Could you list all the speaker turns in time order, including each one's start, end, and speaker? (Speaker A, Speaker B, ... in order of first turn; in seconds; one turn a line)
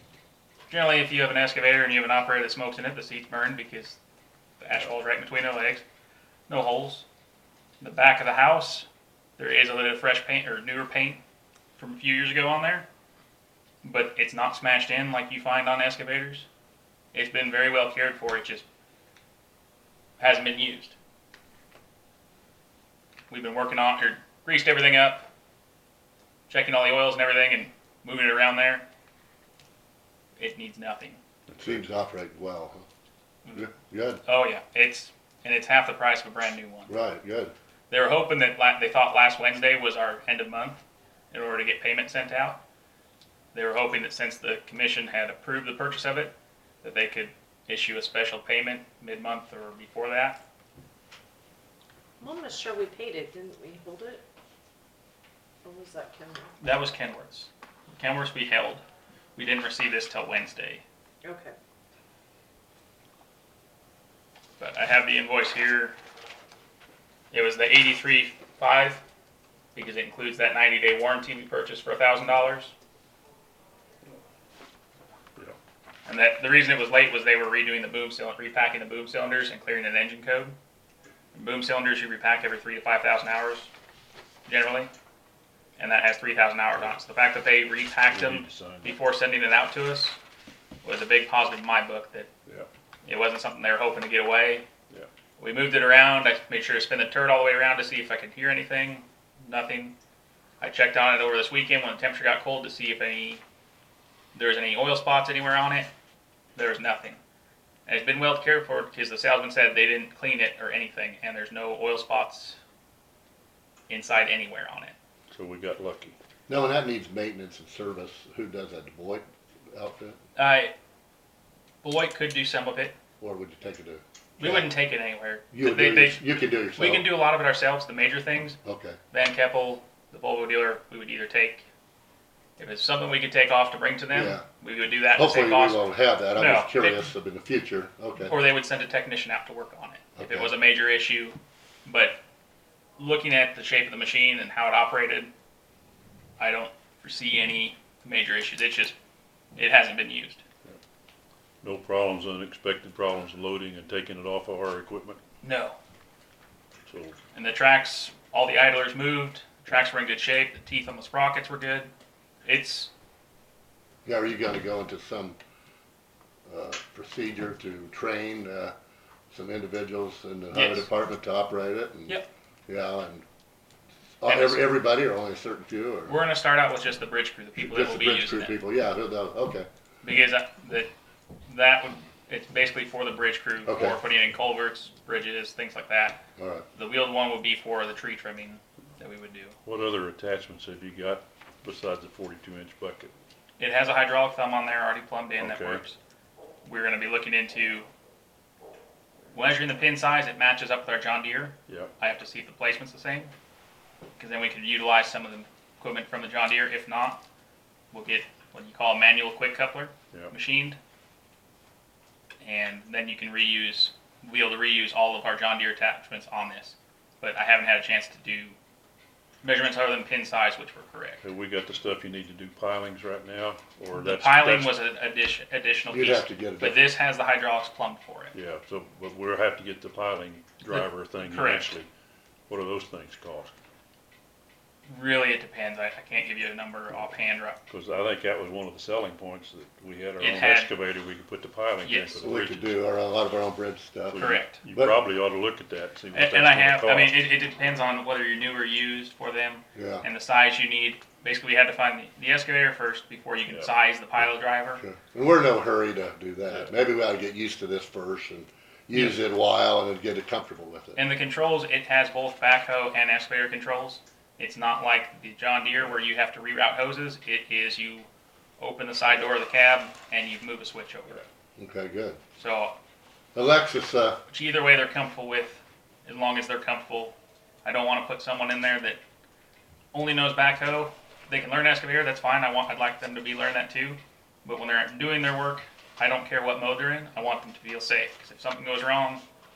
Speaker A: 0.7-4.0
Speaker A: 4.6-5.8
Speaker A: 6.5-7.0
Speaker A: 7.8-11.2
Speaker A: 11.8-12.8
Speaker A: 13.8-16.4
Speaker A: 17.1-18.6
Speaker A: 20.2-20.9
Speaker A: 23.3-25.3
Speaker A: 26.5-28.8
Speaker A: 30.4-31.2
Speaker B: 31.5-31.8
Speaker C: 31.6-32.9
Speaker A: 33.4-33.7
Speaker C: 33.5-34.2
Speaker A: 34.2-37.0
Speaker C: 36.9-37.5
Speaker A: 37.9-42.6
Speaker A: 43.5-50.4
Speaker D: 52.2-54.2
Speaker D: 55.6-56.5
Speaker A: 56.6-58.8
Speaker A: 59.4-60.8
Speaker D: 61.2-61.5
Speaker A: 64.6-65.9
Speaker A: 67.3-69.0
Speaker A: 69.7-72.7
Speaker A: 76.0-80.5
Speaker A: 81.3-83.7
Speaker A: 84.5-84.9
Speaker A: 85.8-90.2
Speaker B: 88.1-89.0
Speaker A: 90.8-92.3
Speaker A: 93.0-94.7
Speaker A: 95.4-99.9
Speaker A: 100.6-103.4
Speaker A: 104.3-105.9
Speaker A: 106.5-107.2
Speaker A: 107.9-112.6
Speaker A: 113.9-114.9
Speaker B: 115.3-116.2
Speaker C: 116.5-120.2
Speaker A: 120.3-120.7
Speaker A: 121.8-122.9
Speaker C: 123.2-124.7
Speaker A: 124.4-128.6
Speaker C: 125.5-127.1
Speaker C: 128.6-129.0
Speaker A: 129.1-131.7
Speaker A: 132.6-137.0
Speaker C: 134.1-134.4
Speaker C: 135.2-138.4
Speaker A: 138.2-142.2
Speaker C: 140.2-140.5
Speaker A: 143.0-145.3
Speaker A: 146.4-148.9
Speaker A: 149.6-150.4
Speaker B: 151.6-155.2
Speaker A: 155.4-155.8
Speaker B: 156.9-157.2
Speaker A: 157.3-161.9
Speaker A: 162.4-162.9
Speaker C: 164.0-165.4
Speaker C: 166.5-168.7
Speaker C: 169.3-173.2
Speaker A: 170.5-170.9
Speaker C: 174.2-176.2
Speaker A: 174.2-174.6
Speaker A: 176.1-178.6
Speaker C: 177.6-179.7
Speaker A: 180.0-180.9
Speaker A: 181.4-186.2
Speaker C: 183.7-184.0
Speaker C: 186.4-186.6
Speaker A: 186.8-189.6
Speaker B: 189.6-193.1
Speaker A: 193.6-196.0
Speaker B: 195.4-195.8
Speaker A: 196.6-197.9
Speaker A: 199.3-203.3
Speaker B: 201.7-201.9
Speaker A: 204.2-207.2
Speaker A: 207.9-210.8
Speaker A: 212.4-218.6
Speaker A: 219.4-221.2
Speaker B: 221.2-224.8
Speaker A: 223.9-228.3
Speaker C: 225.9-226.9
Speaker B: 228.3-231.9
Speaker A: 230.6-231.7
Speaker B: 232.5-233.5
Speaker A: 234.9-237.6
Speaker B: 237.7-242.8
Speaker A: 240.2-240.7
Speaker A: 241.8-242.2
Speaker C: 242.2-245.0
Speaker B: 244.1-247.1
Speaker A: 244.1-244.6
Speaker A: 246.1-254.8
Speaker C: 249.7-250.1
Speaker C: 254.8-261.0
Speaker A: 260.9-268.1
Speaker A: 268.6-271.2
Speaker C: 271.6-272.2
Speaker A: 272.4-272.7
Speaker C: 273.3-274.2
Speaker A: 274.3-279.0
Speaker A: 279.9-289.2